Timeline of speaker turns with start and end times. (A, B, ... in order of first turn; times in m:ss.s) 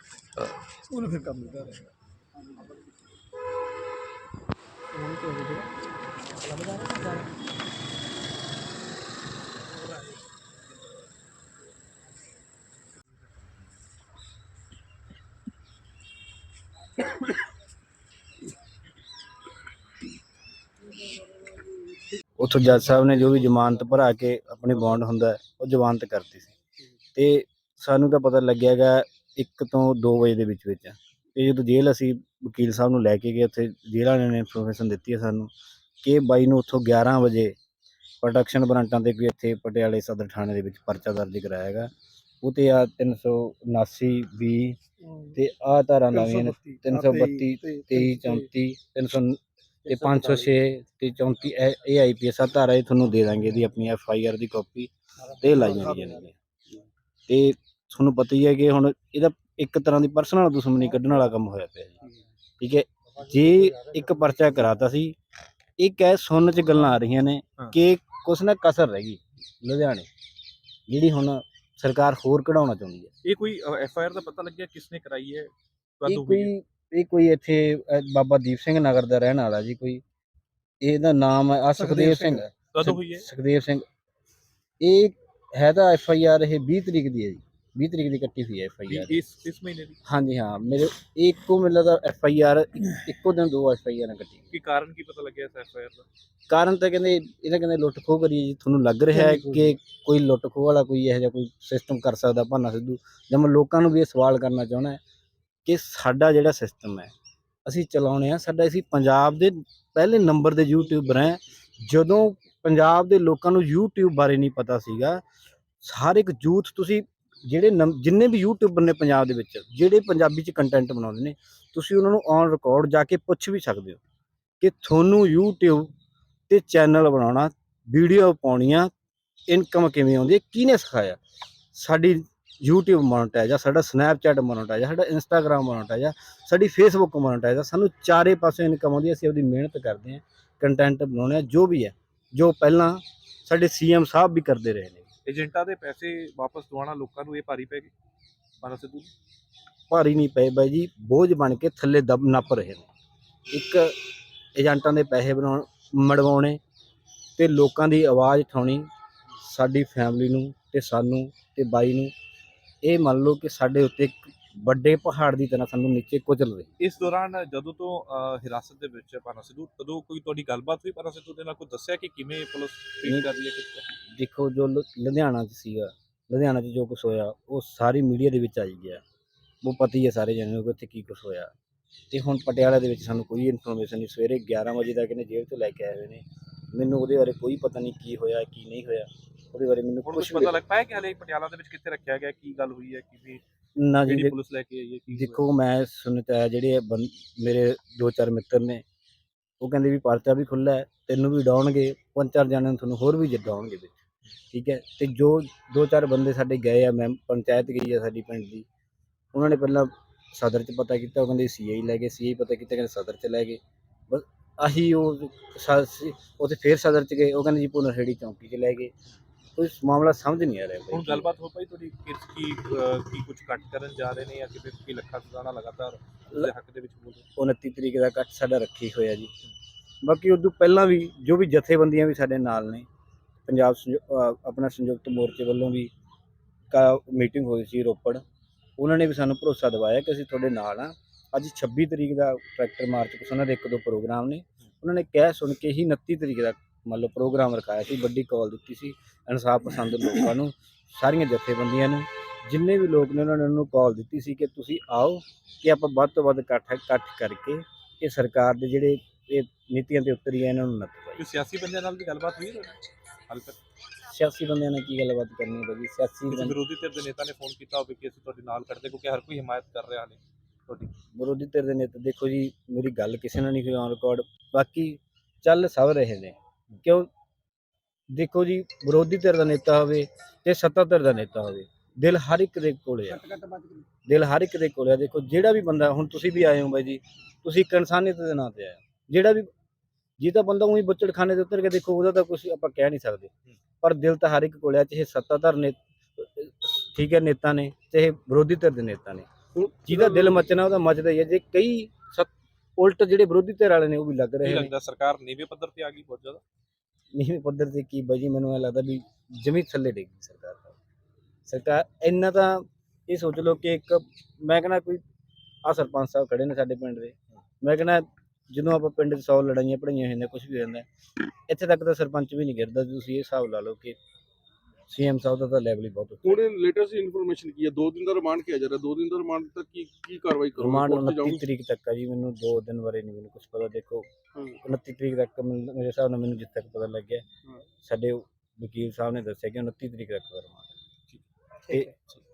0:00.9-0:01.9 A
0:04.9-0:05.7 A
0:06.4-0:07.3 A
0:22.4-0:26.5 B
0:27.1-0:35.5 B
0:36.0-0:37.6 B
0:38.2-0:41.9 B
0:42.4-0:44.8 B
0:45.3-0:56.3 B
0:46.2-0:48.4 C
0:49.9-0:50.5 C
0:57.3-1:02.1 B
1:02.6-1:05.2 B
1:05.8-1:10.0 B
1:10.9-1:13.1 B
1:13.2-1:16.5 D
1:16.1-1:20.0 B
1:20.8-1:23.8 B
1:21.8-1:22.4 C
1:22.7-1:23.3 D
1:24.8-1:29.2 B
1:28.9-1:30.0 D
1:30.0-1:34.5 B
1:34.5-1:36.0 D
1:36.5-1:45.0 B
1:45.6-1:47.1 B
1:47.6-1:55.2 B
1:55.8-2:04.0 B
2:04.6-2:05.9 B
2:06.5-2:08.9 B
2:09.5-2:11.2 B
2:11.7-2:25.0 B
2:25.2-2:27.9 D
2:28.6-2:29.1 D
2:29.9-2:32.9 B
2:33.5-2:36.6 B
2:37.4-2:38.9 B
2:39.4-2:42.1 B
2:42.8-2:46.7 B
2:46.8-2:53.8 D
2:53.0-2:53.3 B
2:54.1-2:59.0 B
2:59.6-3:01.5 B
3:02.1-3:10.6 B
3:10.0-3:13.4 D
3:13.8-3:14.3 B
3:14.0-3:15.4 D
3:15.1-3:18.8 B
3:19.6-3:23.9 B
3:24.5-3:28.6 B
3:29.3-3:38.9 B
3:39.6-3:41.3 B
3:40.9-3:47.2 D
3:47.4-3:49.3 B
3:50.0-3:52.8 B
3:53.4-3:55.9 B
3:56.7-3:58.2 B
3:58.8-4:21.2 B
4:21.2-4:23.6 D
4:24.0-4:26.6 B
4:26.3-4:30.9 D
4:31.0-4:37.1 B
4:38.1-4:43.3 B
4:44.0-4:49.5 B
4:50.2-5:04.7 B
4:59.9-5:00.3 C
5:04.4-5:06.4 D
5:07.1-5:10.8 B
5:11.4-5:15.0 B
5:15.6-5:20.9 B
5:21.5-5:24.0 B
5:24.9-5:26.4 B
5:26.2-5:31.4 C
5:30.6-5:34.0 B
5:34.3-5:34.6 C
5:34.6-5:37.2 B
5:37.8-5:40.7 B